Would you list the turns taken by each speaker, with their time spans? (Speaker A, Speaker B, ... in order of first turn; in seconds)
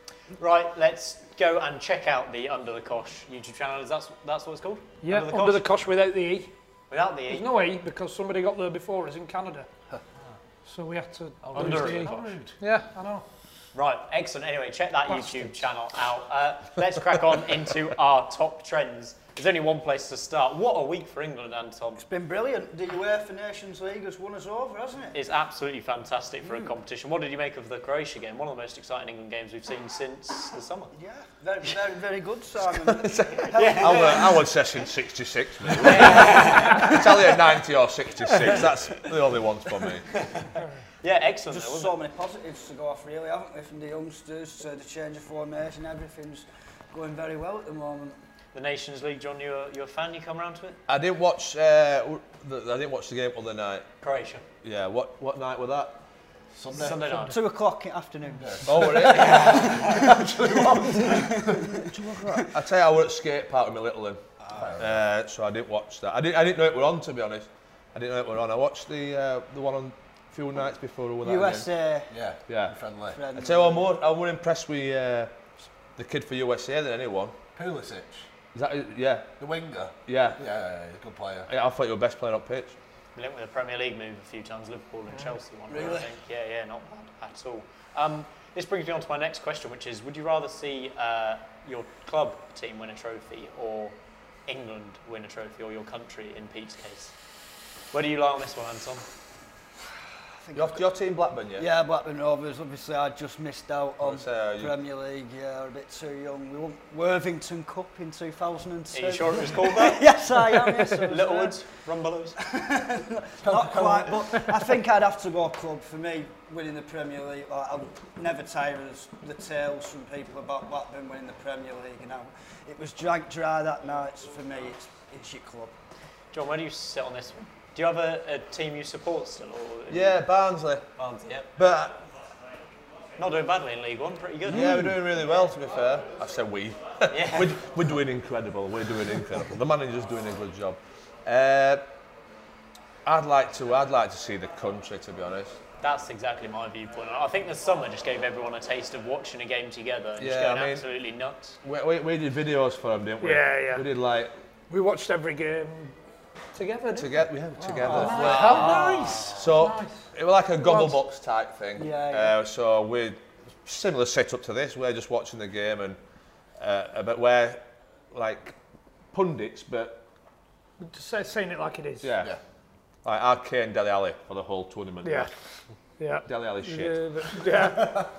Speaker A: 0.4-5.7, 6.9-7.5, 11.5-12.2, 13.7-22.0, 25.1-30.9, 33.5-34.3, 35.8-37.0, 40.2-40.5, 41.0-41.9, 48.5-50.8, 54.0-54.4, 56.7-57.4, 83.1-93.9, 94.5-97.1, 97.9-99.0, 108.9-112.4, 126.3-130.2, 131.0-131.5, 133.2-134.8, 137.1-137.6, 145.8-151.6, 158.2-158.5
Speaker B: 5.0-6.5, 7.3-9.7, 10.7-13.2, 15.1-15.6, 153.2-153.8, 154.7-155.9, 156.5-157.1, 157.8-160.0, 160.6-160.9, 170.8-172.2, 175.0-175.3, 176.0-178.1
Speaker C: 11.4-12.6, 56.5-57.2, 58.4-61.8, 64.5-64.9, 72.1-73.2, 77.5-78.2, 79.4-81.5, 113.4-114.4
Speaker D: 22.0-25.1, 30.9-34.3, 41.5-48.1, 57.2-60.2, 61.0-61.6, 71.2-72.1, 73.1-73.9, 85.7-86.0, 100.4-100.8, 101.6-111.6, 112.4-125.7, 157.8-159.4, 161.8-162.3
Speaker E: 32.6-40.0, 50.9-53.9, 54.6-56.0, 58.6-59.9, 61.5-64.2, 64.7-71.7, 72.5-72.7, 73.3-75.3, 76.0-77.4, 78.5-79.3, 80.1-80.4, 81.5-82.8, 100.5-101.7, 104.0-104.7, 129.9-130.8, 131.6-132.0, 134.5-141.8, 143.0-145.6, 150.2-150.8, 151.6-154.3, 156.9-166.0, 166.6-168.6, 169.1-170.0, 172.0-172.3, 173.0-175.3, 176.2-177.0